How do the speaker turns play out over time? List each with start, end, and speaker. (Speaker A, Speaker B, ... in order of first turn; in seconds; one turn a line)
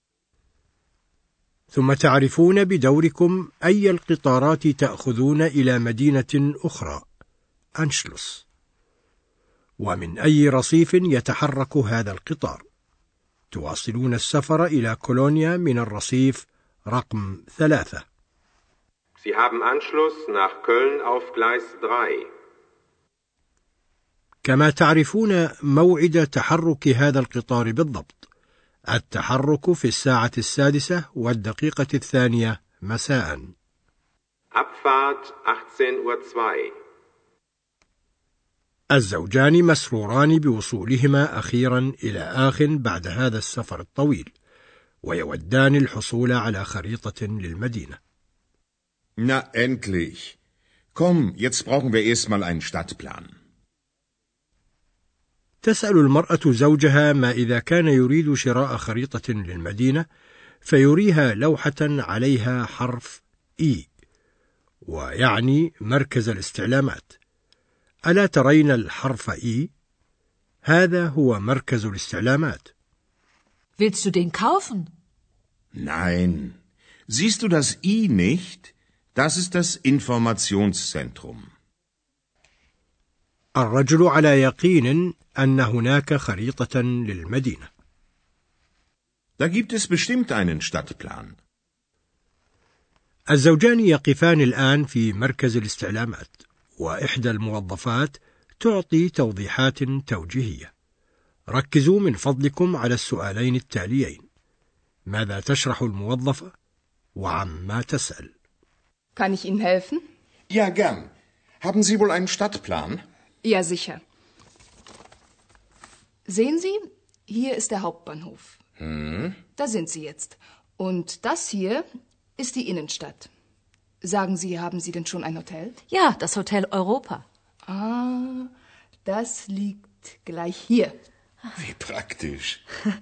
Speaker A: 1.7-7.0
Speaker A: 7.8-8.4
Speaker A: 9.8-12.6
Speaker A: 13.5-18.0
Speaker B: 19.2-22.3
Speaker A: 24.4-28.2
Speaker A: 28.9-33.5
Speaker B: 34.5-36.7
Speaker A: 38.9-44.3
Speaker A: 45.0-48.0
Speaker C: 49.2-50.4
Speaker C: 50.9-53.3
Speaker A: 55.6-60.0
Speaker A: 60.6-63.9
Speaker A: 64.8-67.2
Speaker A: 68.1-69.7
Speaker A: 70.7-72.7
Speaker D: 73.8-74.9
Speaker C: 75.7-76.6
Speaker C: 77.1-81.5
Speaker A: 83.5-87.7
Speaker C: 89.4-91.4
Speaker A: 93.3-100.7
Speaker A: 101.5-104.2
Speaker A: 105.1-106.5
Speaker A: 107.2-108.3
Speaker E: 109.2-110.0
Speaker C: 110.5-113.0
Speaker E: 113.4-114.0
Speaker E: 116.2-118.6
Speaker C: 118.8-119.4
Speaker E: 119.5-121.8
Speaker E: 122.4-123.3
Speaker E: 124.0-125.8
Speaker D: 126.0-127.2
Speaker E: 127.7-128.5
Speaker E: 129.0-130.9
Speaker C: 131.6-132.6